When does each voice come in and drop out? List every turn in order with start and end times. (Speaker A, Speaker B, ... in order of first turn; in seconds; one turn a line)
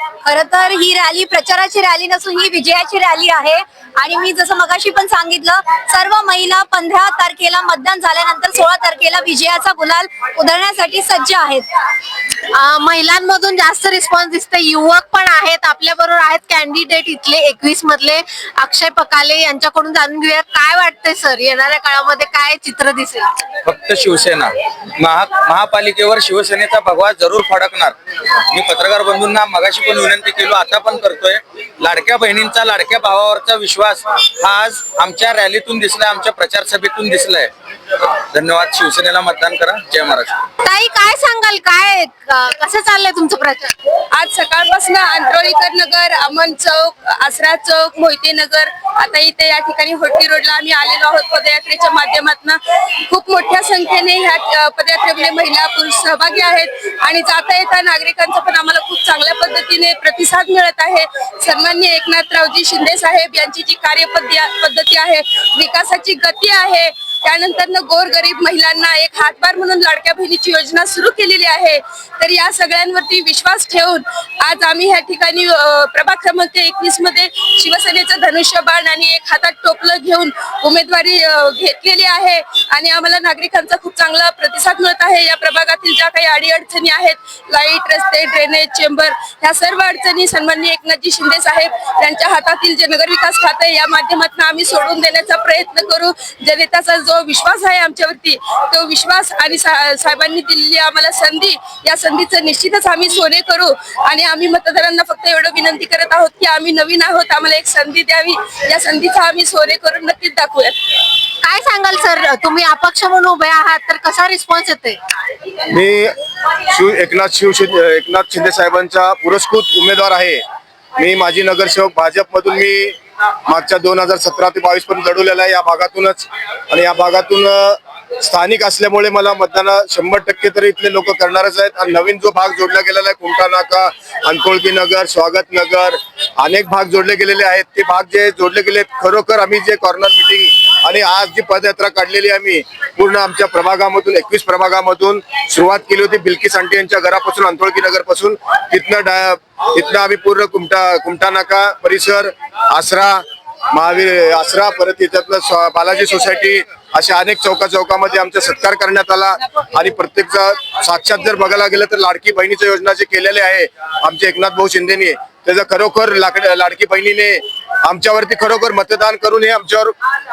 Speaker A: 0.2-11.7
Speaker B: 12.5-23.3
Speaker C: 23.6-40.4
Speaker B: 40.6-43.7
Speaker D: 44.1-110.8
Speaker B: 111.4-115.0
Speaker E: 115.7-120.4
Speaker E: 121.0-169.9